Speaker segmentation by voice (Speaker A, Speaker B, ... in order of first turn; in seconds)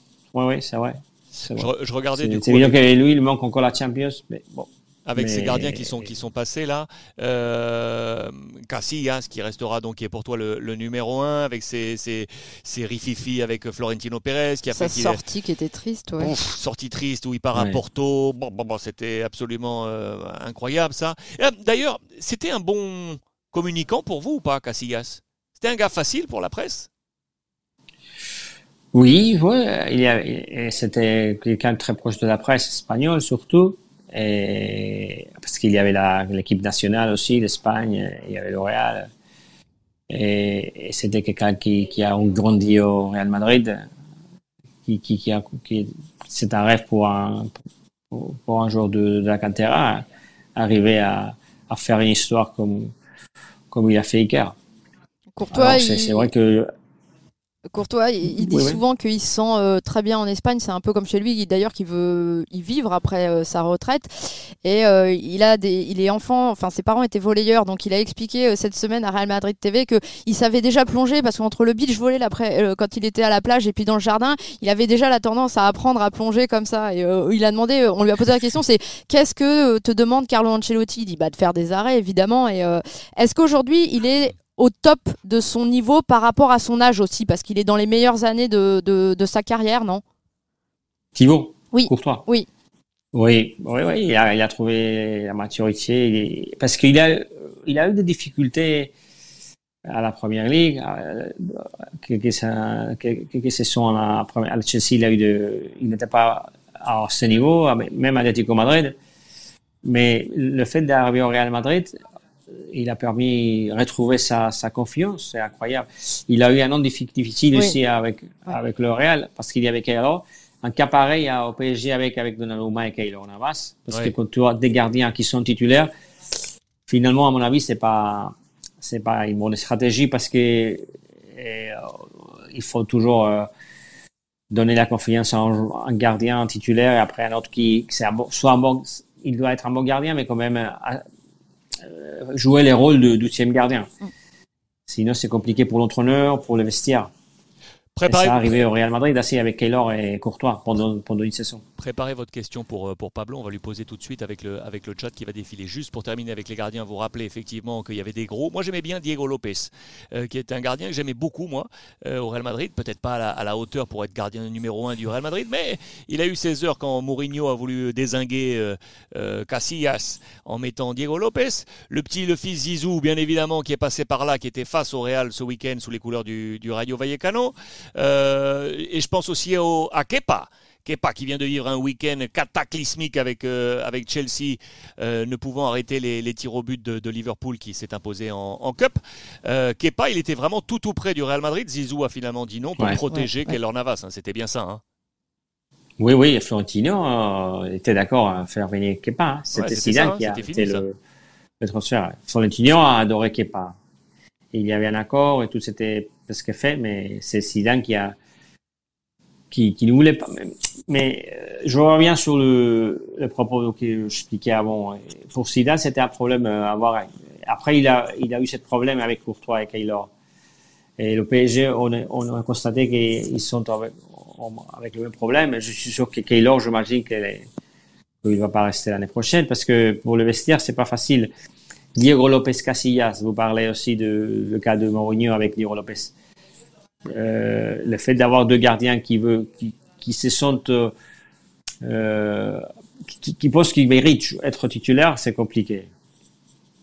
Speaker A: 0.3-6.1, 17.5-17.8, 28.9-39.0, 40.1-43.8, 44.9-47.5, 48.1-50.0, 50.5-52.9, 53.7-54.5, 55.5-56.7, 58.2-58.8, 91.1-92.2, 93.1-98.9, 99.9-109.0, 109.8-112.0, 112.5-125.9, 126.9-133.5, 134.5-141.0, 141.8-143.9, 144.9-147.1, 148.1-151.6, 196.0-201.0, 201.6-203.8, 204.5-208.2, 209.5-220.1, 221.0-227.4, 228.2-231.3, 231.9-236.1, 237.1-240.9, 241.8-245.9
Speaker B: 1.4-2.9, 5.0-15.2, 16.2-26.9, 123.9-124.1, 147.9-148.7, 151.8-194.8, 199.5-200.8
Speaker C: 14.7-16.3, 55.3-56.3, 57.7-64.1, 64.6-90.0, 91.7-92.5, 193.1-193.5